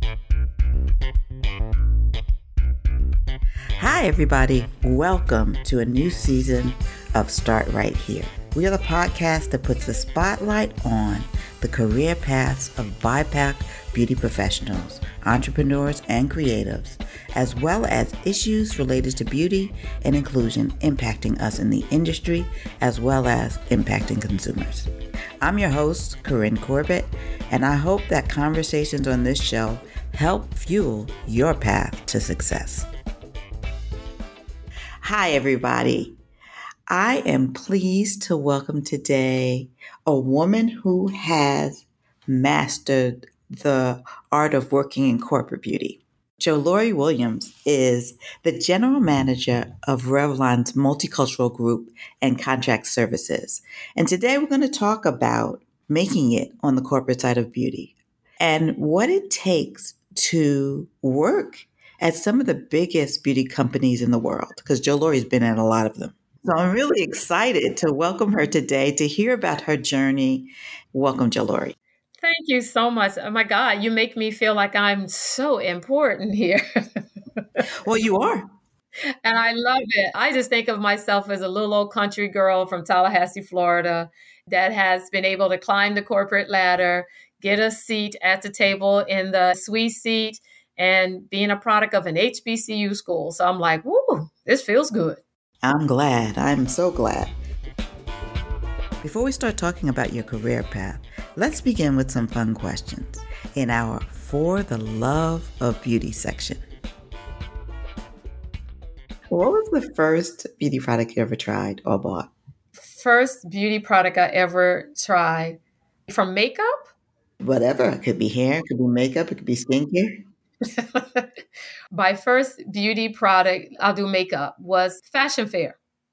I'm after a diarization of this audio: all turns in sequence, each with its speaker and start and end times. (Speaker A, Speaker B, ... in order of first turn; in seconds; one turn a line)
Speaker A: 3.8-24.9
Speaker A: 25.4-32.9
Speaker A: 35.0-36.2
Speaker A: 36.9-71.8
Speaker B: 72.2-76.6
Speaker A: 77.8-78.5
Speaker B: 79.2-95.2
Speaker A: 95.6-97.3
Speaker A: 99.0-106.6
Speaker A: 109.3-112.3
Speaker B: 112.8-116.9
Speaker A: 117.4-120.2
Speaker B: 120.6-121.3
Speaker B: 121.9-125.8